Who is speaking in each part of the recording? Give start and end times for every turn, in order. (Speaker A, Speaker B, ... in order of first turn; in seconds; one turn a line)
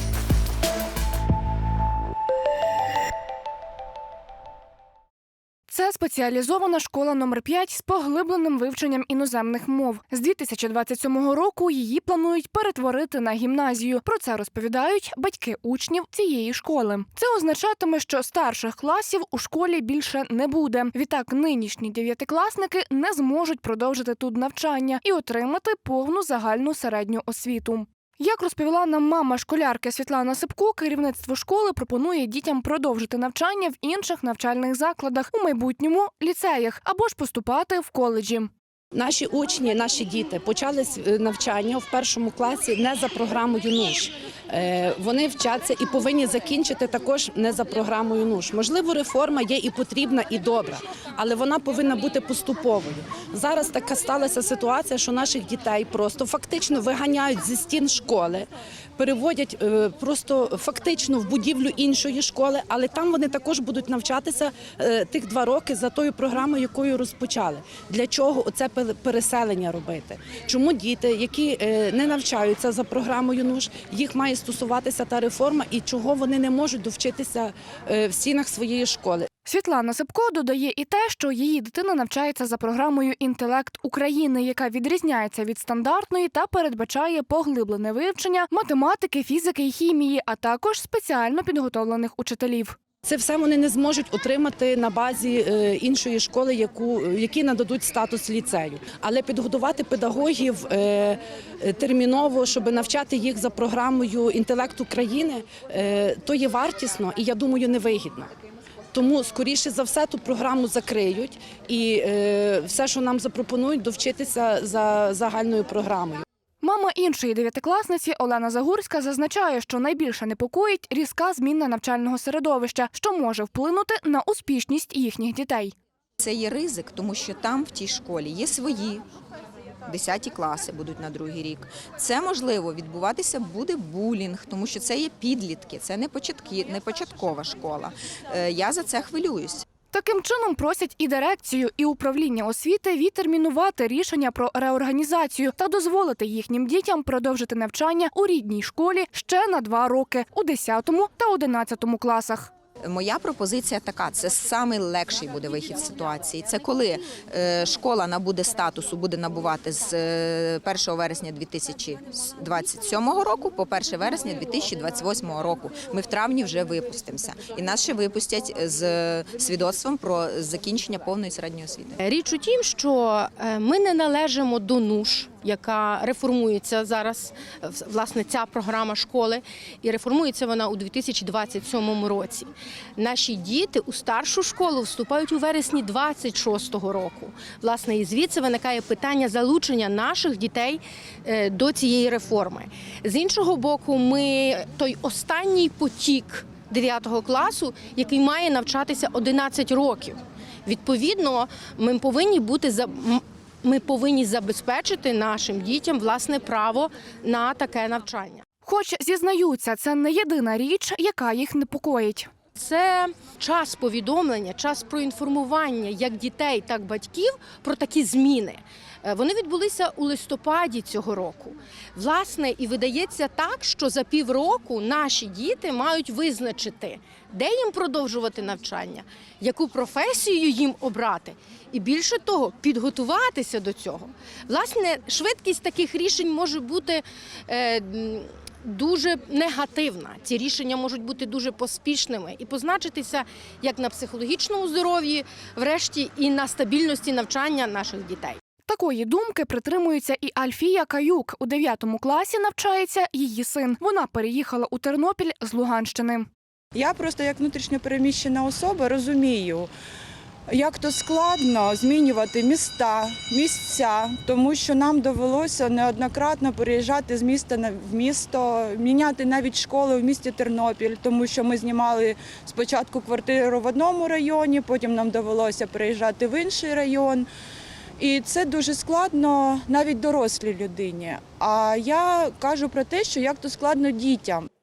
Speaker A: 5.7-38.5
Speaker B: 38.9-79.3
Speaker A: 79.5-92.8
Speaker B: 93.0-108.3
Speaker B: 108.9-116.2
Speaker A: 116.6-125.7
Speaker C: 126.2-129.0
Speaker C: 129.8-139.6
Speaker A: 139.9-152.5
Speaker C: 152.8-171.9
Speaker D: 172.0-208.4
Speaker A: 208.6-212.3
Speaker D: 212.6-248.4
Speaker A: 248.7-256.3
Speaker E: 256.7-259.7
Speaker E: 260.5-277.2
Speaker E: 278.0-284.5